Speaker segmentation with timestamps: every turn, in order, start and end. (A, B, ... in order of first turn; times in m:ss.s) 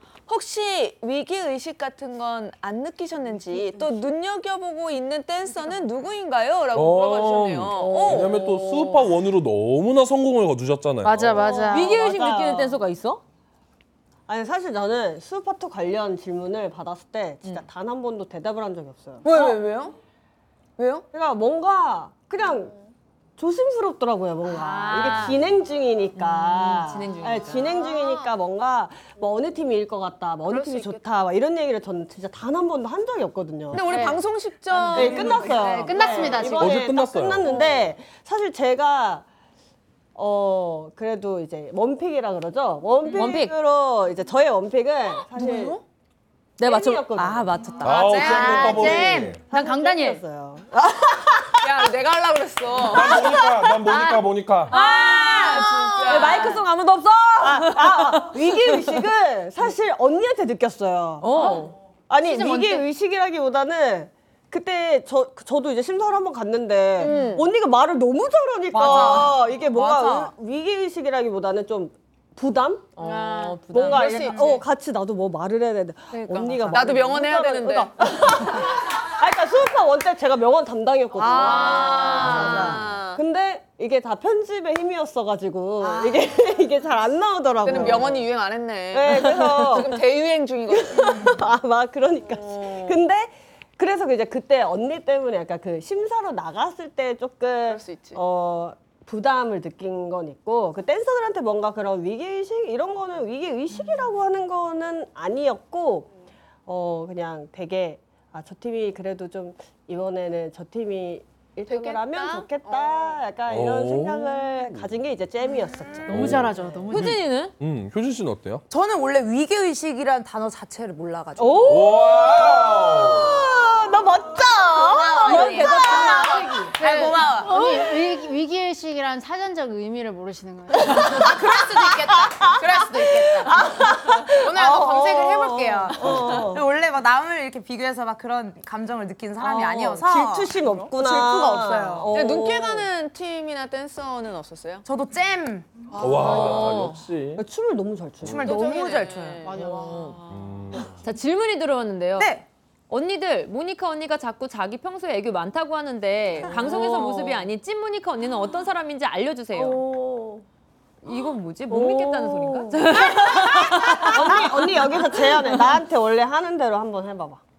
0:00.3-0:08.5 A
0:06.7-0:11.6 B
0:07.8-0:09.0 C
0:11.0-0:12.0 D
0:11.4-0:12.8 E
0:11.7-0:13.2 C
0:14.3-0:19.6 E
0:19.2-0:20.0 A
0:20.8-0:21.1 A
0:21.1-0:22.7 E
0:23.4-0:33.8 E
0:24.5-0:25.4 D
0:26.2-0:27.8 C
0:27.5-0:28.3 A
0:30.5-0:31.0 A
0:33.7-0:36.5 A
0:33.8-0:34.2 D
0:34.7-0:36.9 D
0:34.9-0:39.3 E
0:36.6-0:37.5 B
0:37.4-0:37.9 A
0:40.2-0:45.8 E
0:43.1-0:43.6 C
0:45.4-0:45.8 A
0:46.6-0:48.9 C
0:46.6-0:47.6 E
0:47.8-0:49.4 B
0:48.1-0:50.2 D
0:48.2-0:51.7 E
0:51.6-0:53.2 A
0:52.8-0:54.7 B
0:53.0-0:53.8 E
0:53.8-0:54.3 D
0:54.7-0:59.0 C
0:54.7-0:56.6 A
0:56.2-0:56.4 E
0:57.4-1:12.9 E
1:01.2-1:01.7 C
1:01.3-1:01.7 D
1:07.0-1:07.5 A
1:08.7-1:10.3 A
1:08.8-1:09.2 F
1:13.0-1:14.4 C
1:13.0-1:13.7 D
1:13.7-1:28.3 E
1:13.8-1:14.6 A
1:16.2-1:18.5 A
1:16.4-1:16.8 C
1:21.2-1:23.2 A
1:21.3-1:22.8 C
1:25.8-1:26.1 A
1:27.6-1:31.4 A
1:28.9-1:30.0 E
1:30.7-1:46.1 E
1:32.3-1:33.0 A
1:37.6-1:38.2 A
1:46.7-1:56.4 E
1:51.7-1:53.1 A
1:53.5-1:54.2 B
1:56.1-1:57.2 D
1:56.1-1:58.6 B
1:56.9-1:57.5 C
1:58.7-2:01.7 F
2:01.4-2:06.7 E
2:01.7-2:03.4 B
2:04.8-2:06.4 F
2:05.3-2:07.5 A
2:05.8-2:10.9 D
2:07.5-2:07.8 E
2:10.8-2:22.1 F
2:11.4-2:16.7 E
2:16.1-2:16.5 B
2:19.4-2:22.9 E
2:22.1-2:24.9 A
2:24.9-2:25.8 F
2:25.9-2:26.8 A
2:26.0-2:27.4 B
2:26.0-2:26.8 E
2:26.5-2:26.9 C
2:27.4-2:28.6 E
2:28.2-2:29.5 F
2:28.4-2:30.8 A
2:29.4-2:30.2 D
2:29.5-2:30.1 C
2:30.3-2:30.9 B
2:31.0-2:32.4 C
2:32.2-2:32.5 F
2:32.9-2:39.8 C
2:36.4-2:37.3 E
2:39.5-2:40.4 E
2:41.0-2:45.7 C
2:41.7-2:47.4 E